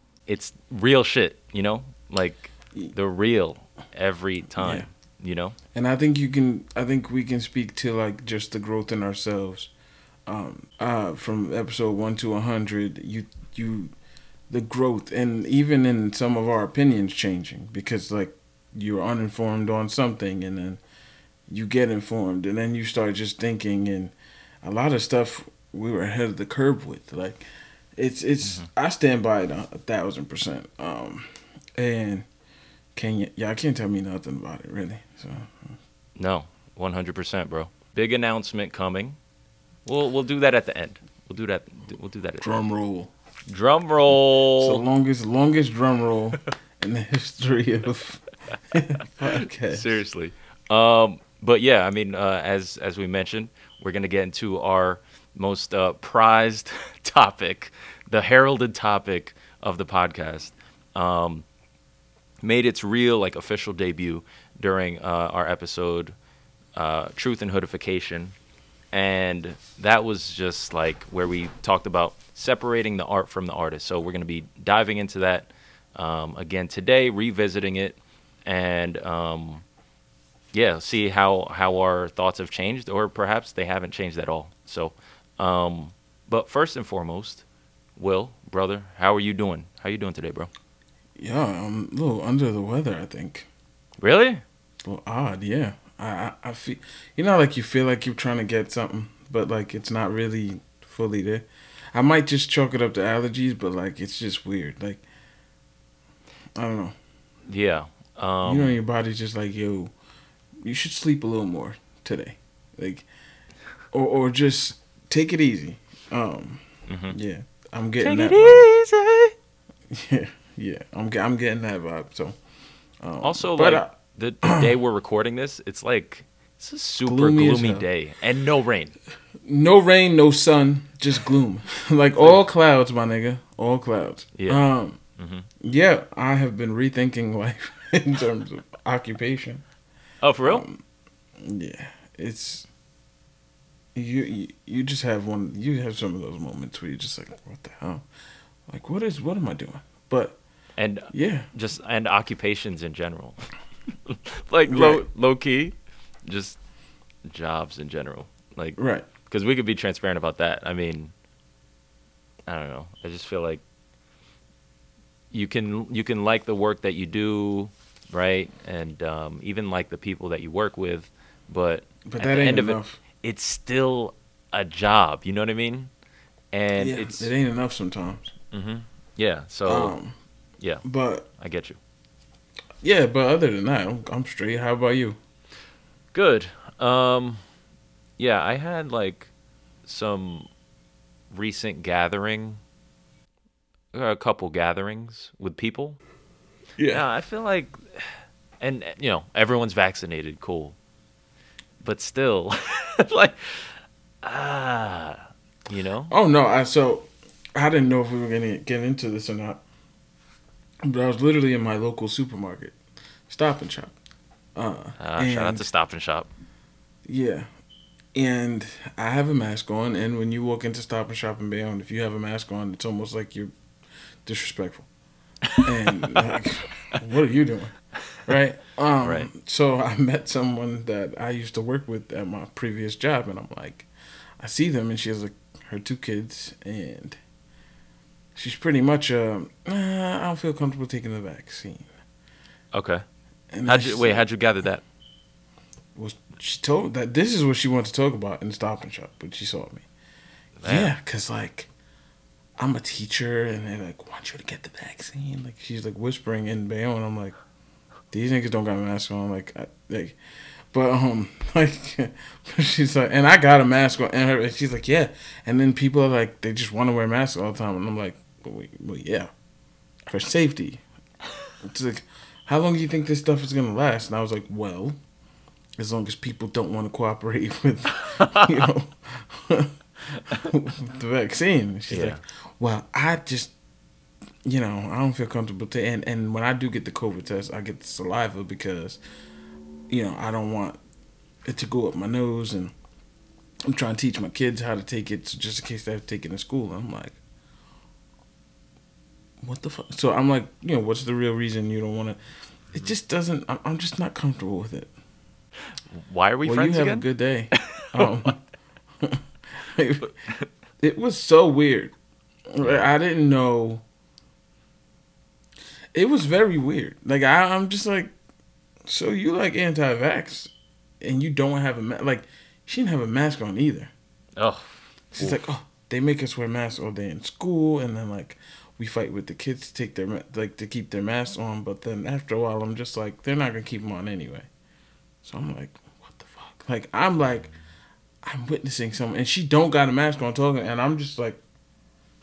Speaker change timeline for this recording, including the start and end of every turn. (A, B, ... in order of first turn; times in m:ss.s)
0:00.3-0:05.6 A
0:04.6-0:04.9 B
0:05.7-0:09.7 B
0:10.3-0:13.9 B
0:14.5-0:20.8 B
0:21.5-0:27.4 B
0:28.0-0:32.3 B
0:28.4-0:28.7 A
0:33.0-0:35.7 B
0:36.2-0:39.2 A
0:39.9-0:42.6 A
0:42.4-0:43.1 B
0:43.5-0:44.8 A
0:44.6-0:50.0 B
0:49.3-1:01.4 A
1:02.4-1:06.2 A
1:06.8-1:08.3 A
1:08.9-1:19.6 A
1:20.5-1:27.4 A
1:28.0-1:30.5 A
1:31.2-1:33.5 B
1:34.0-1:34.4 A
1:34.8-1:45.0 B
1:46.6-1:47.0 B
1:47.5-1:48.8 A
1:48.4-1:49.9 B
1:50.6-1:53.1 B
1:53.9-1:58.7 B
1:56.9-1:57.2 A
1:58.0-1:59.4 A
1:59.9-2:02.4 B
2:03.0-2:03.9 B
2:03.2-2:09.0 A
2:04.4-2:04.7 B
2:07.0-2:07.8 B
2:09.4-2:15.0 B
2:14.4-2:14.6 A
2:15.2-2:15.5 A
2:15.6-2:19.6 B
2:20.2-2:20.6 A
2:20.5-2:20.8 B
2:21.4-2:22.7 B
2:24.0-2:28.0 B
2:28.7-2:30.4 B
2:30.8-2:33.4 A
2:31.1-2:31.5 B
2:34.1-2:35.8 A
2:34.7-2:35.0 B
2:36.3-2:36.6 A
2:37.3-2:41.1 A
2:38.8-2:39.1 B
2:42.5-2:43.6 A
2:45.3-2:55.9 A
2:52.0-2:53.0 B
2:56.5-2:57.3 A
2:56.8-2:58.3 B
2:58.5-2:59.9 A
2:59.7-3:00.2 B
3:00.8-3:01.3 B
3:01.4-3:01.8 A
3:02.8-3:05.2 B
3:06.1-3:07.4 A
3:08.2-3:09.3 A
3:09.9-3:10.5 A
3:11.3-3:12.6 A
3:13.9-3:16.0 A
3:16.8-3:17.0 B
3:16.9-3:20.8 A
3:21.8-3:26.1 A
3:26.1-3:29.6 B
3:30.8-3:32.8 B
3:33.3-3:34.0 B
3:34.6-3:35.7 B
3:35.0-3:36.3 A
3:37.1-3:37.5 B
3:38.1-3:43.5 B
3:44.2-3:44.9 B
3:45.5-3:46.2 A
3:45.6-3:47.7 B
3:48.3-3:53.9 B
3:49.0-3:49.3 A
3:54.4-3:57.2 B
3:58.4-4:01.9 B
4:02.7-4:03.0 A
4:03.5-4:04.2 B
4:03.7-4:04.8 A
4:06.0-4:09.8 B
4:10.6-4:10.9 A
4:10.7-4:11.7 B
4:12.6-4:17.4 B
4:18.1-4:20.2 B
4:20.7-4:29.3 B
4:30.1-4:30.8 B
4:31.6-4:35.0 B
4:35.8-4:43.5 B
4:38.2-4:38.6 A
4:41.9-4:42.2 A
4:44.4-4:49.0 B
4:49.9-4:50.8 B
4:51.4-4:52.7 B
4:53.7-4:57.2 B
4:59.4-5:02.2 B
5:02.7-5:04.9 B
5:05.9-5:07.1 A
5:06.4-5:08.4 B
5:07.6-5:08.1 A
5:09.0-5:10.1 B
5:10.8-5:11.9 B
5:12.5-5:13.8 B
5:12.6-5:12.9 A
5:15.9-5:18.1 B
5:18.8-5:23.9 B
5:24.4-5:25.4 A
5:25.1-5:34.5 B
5:35.2-5:37.5 B
5:38.2-5:41.4 B